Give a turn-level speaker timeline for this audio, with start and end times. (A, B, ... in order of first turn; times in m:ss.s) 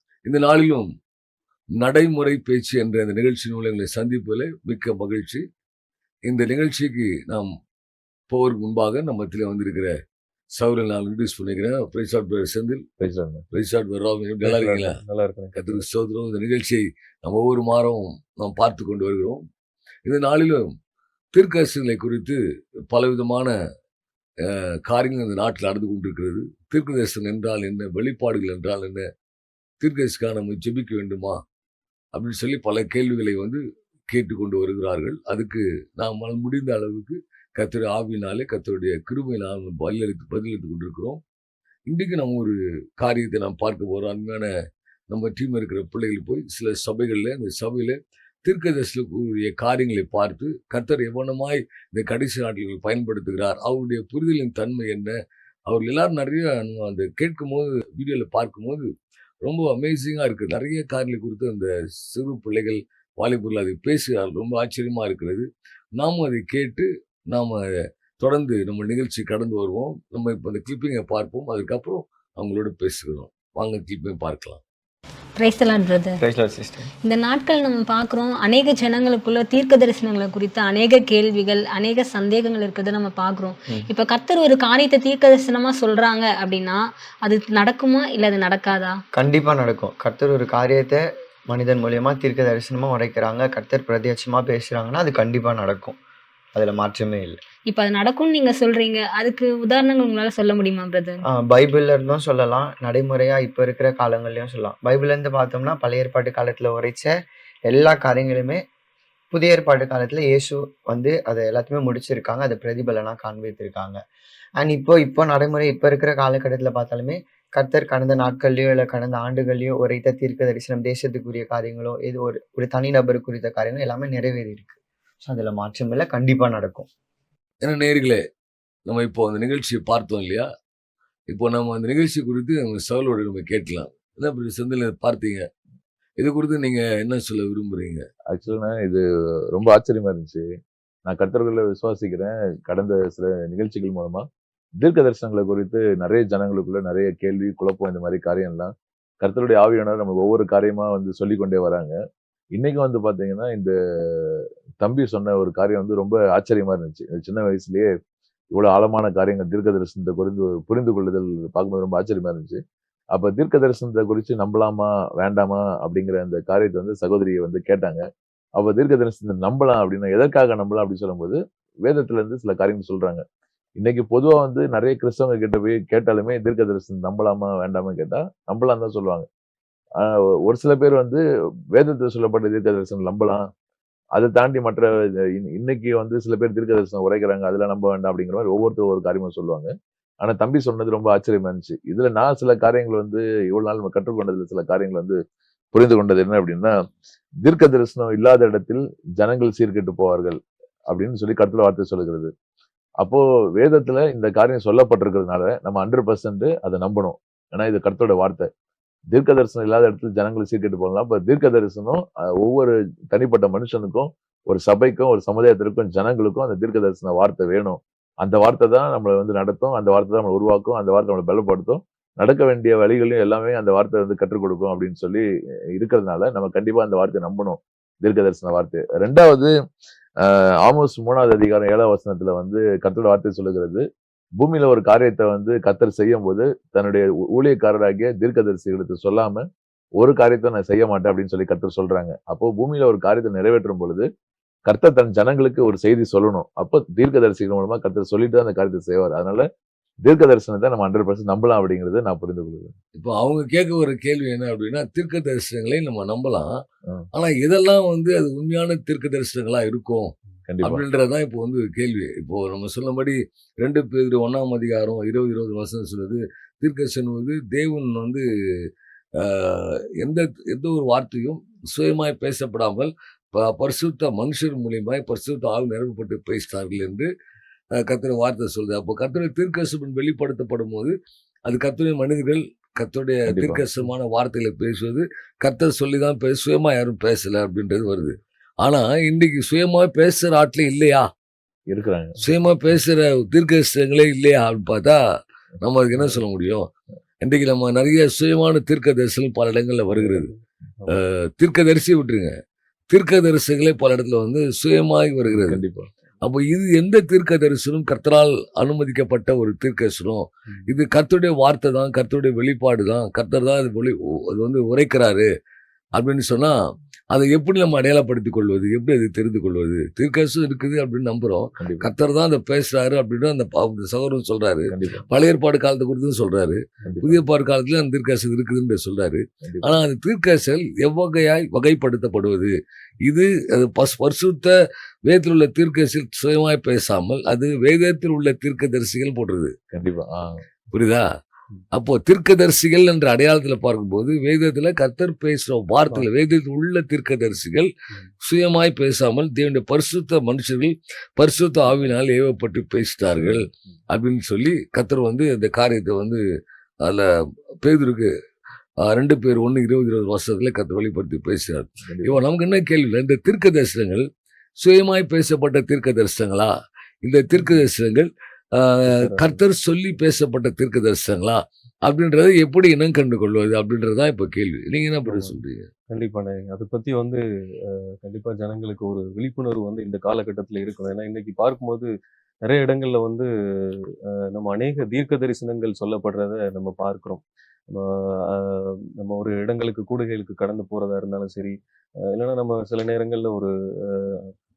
0:00.2-0:00.9 A
0:01.8-0:05.4 A
0:06.2-0:07.5 A
0:08.3-0:10.0 A
0:10.6-0:12.9 A
0:13.0-0:13.4 B
0:13.5-0:15.0 A
0:14.4-0:15.8 C
0:15.5-0:19.4 A
0:20.0-0:20.7 A
0:21.3-0:23.5 A
0:24.4-0:29.1 A
0:29.8-0:31.4 A
0:32.1-0:41.2 A
0:41.9-0:44.5 A
0:45.1-0:58.9 A
0:59.4-1:14.6 A
1:15.4-1:16.2 D
1:16.2-1:16.9 E
1:17.0-1:29.0 D
1:29.1-1:36.0 E
1:36.5-1:37.4 E
1:37.7-1:41.2 D
1:41.2-1:47.1 E
1:47.7-1:48.6 E
1:49.3-1:54.0 E
1:54.6-2:06.9 E
2:07.6-2:08.2 A
2:08.9-2:10.5 A
2:11.3-2:15.5 A
2:16.2-2:18.0 A
2:18.3-2:20.4 B
2:21.1-2:24.2 B
2:24.8-2:31.9 B
2:32.5-2:37.9 B
2:38.5-2:42.6 B
2:43.1-2:48.0 B
2:48.6-2:53.2 B
2:53.8-2:59.3 B
3:00.0-3:03.4 B
3:04.1-3:15.2 B
3:15.7-3:16.7 B
3:17.4-3:22.3 B
3:23.0-3:28.5 B
3:29.1-3:45.2 B
3:45.8-3:49.5 B
3:50.2-3:53.8 B
3:54.4-3:59.4 B
4:00.0-4:04.1 B
4:04.6-4:09.4 B
4:10.0-4:12.7 B
4:12.9-4:37.1 A
4:20.5-4:20.8 B
4:37.7-4:40.9 A
4:41.5-4:51.1 A
4:43.3-4:43.6 B
4:51.7-4:52.2 B
4:52.2-4:55.0 A
4:55.6-4:56.7 A
4:57.2-5:00.3 A
5:00.0-5:01.0 C
5:00.9-5:02.3 A
5:02.9-5:05.6 A
5:05.3-5:05.9 B
5:06.2-5:15.3 A
5:16.0-5:16.6 A
5:17.1-5:34.5 A
5:21.6-5:21.9 B
5:24.7-5:25.0 B
5:26.8-5:27.2 B
5:29.4-5:29.8 B
5:35.1-5:39.5 A
5:39.7-5:40.4 B
5:40.7-5:41.1 A
5:41.7-5:47.7 A
5:48.2-5:56.2 A
5:56.8-5:57.1 A
5:57.6-5:58.1 A
5:58.8-6:04.1 A
6:01.8-6:02.2 B
6:04.6-6:15.7 A
6:08.9-6:09.4 C
6:15.0-6:15.3 C
6:15.9-6:21.9 C
6:22.4-6:31.6 C
6:32.1-6:34.3 C